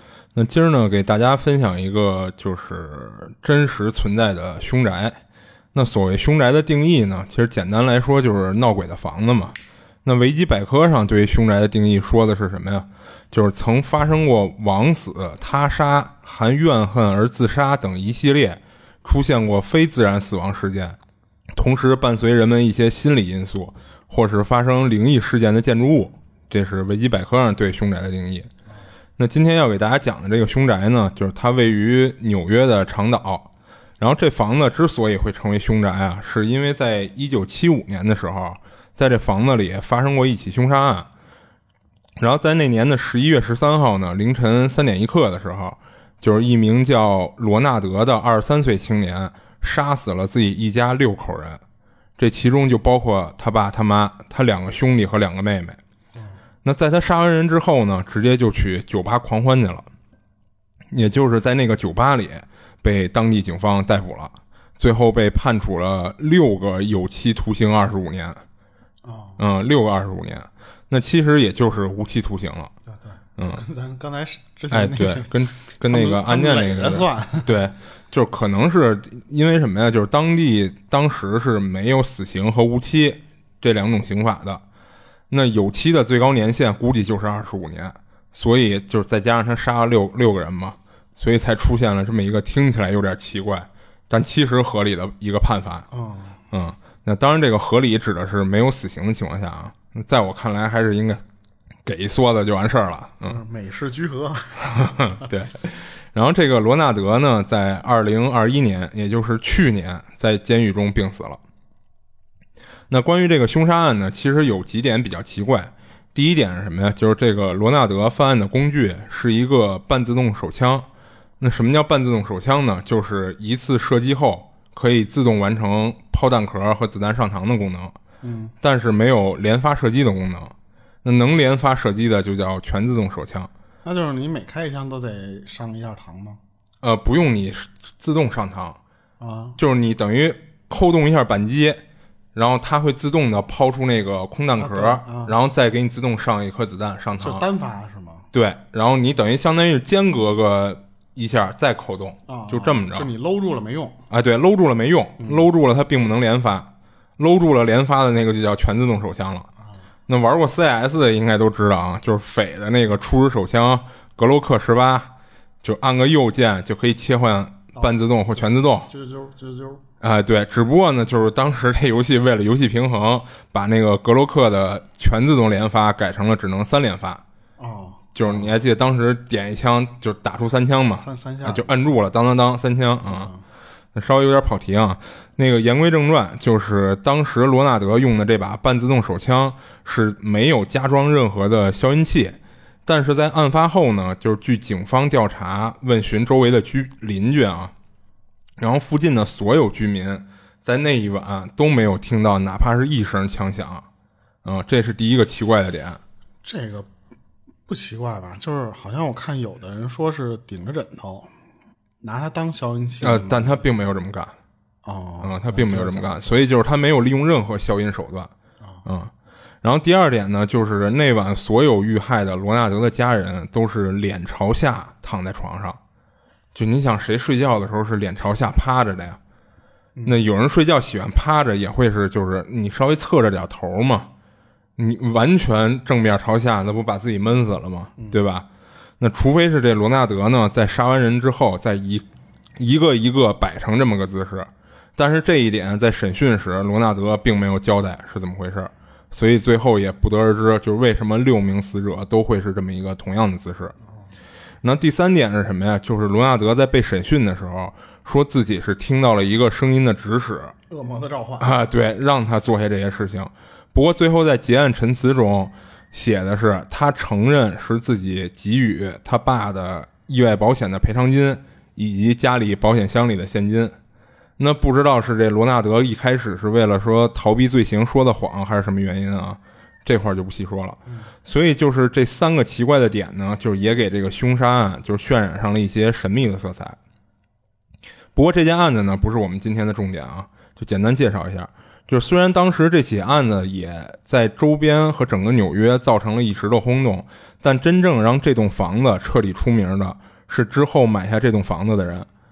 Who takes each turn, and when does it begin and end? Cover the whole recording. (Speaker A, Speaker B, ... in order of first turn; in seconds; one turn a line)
Speaker A: 0.3-5.2
Speaker A: 5.7-21.0
Speaker A: 21.5-28.5
Speaker A: 29.2-41.1
Speaker A: 42.2-51.6
Speaker A: 52.2-55.8
Speaker A: 56.6-59.9
Speaker A: 60.9-68.4
Speaker B: 69.0-69.4
Speaker A: 69.4-72.7
Speaker B: 72.9-75.3
Speaker A: 73.4-73.6
Speaker A: 74.7-84.6
Speaker B: 75.9-77.5
Speaker A: 85.3-95.8
Speaker B: 95.9-96.4
Speaker A: 96.5-101.2
Speaker A: 101.8-103.4
Speaker B: 103.2-105.3
Speaker A: 104.7-111.4
Speaker A: 112.9-120.9
Speaker A: 121.4-128.0
Speaker B: 128.2-128.5
Speaker A: 128.6-133.5
Speaker B: 133.8-136.4
Speaker A: 136.8-138.8
Speaker B: 139.2-139.6
Speaker A: 139.6-141.8
Speaker A: 142.3-147.4
Speaker B: 144.6-145.3
Speaker B: 147.2-148.3
Speaker A: 148.3-153.1
Speaker B: 152.3-154.0
Speaker A: 154.1-159.5
Speaker B: 155.2-155.4
Speaker A: 160.1-165.1
Speaker A: 165.6-168.9
Speaker B: 167.7-169.8
Speaker A: 170.0-177.2
Speaker B: 177.6-178.5
Speaker A: 178.1-183.3
Speaker B: 180.9-181.7
Speaker B: 183.1-183.4
Speaker A: 183.9-197.7
Speaker A: 198.6-203.8
Speaker A: 204.4-206.0
Speaker B: 206.4-206.9
Speaker B: 207.7-211.3
Speaker B: 212.0-213.6
Speaker A: 213.0-214.3
Speaker B: 214.8-216.4
Speaker A: 215.2-218.3
Speaker A: 218.8-225.8
Speaker A: 226.5-229.2
Speaker B: 230.0-230.2
Speaker A: 230.1-234.1
Speaker A: 234.8-238.5
Speaker A: 239.0-242.1
Speaker A: 242.6-253.7
Speaker A: 254.6-260.5
Speaker B: 260.7-261.5
Speaker A: 261.4-273.8
Speaker A: 274.4-286.8
Speaker B: 280.9-281.1
Speaker A: 288.1-302.1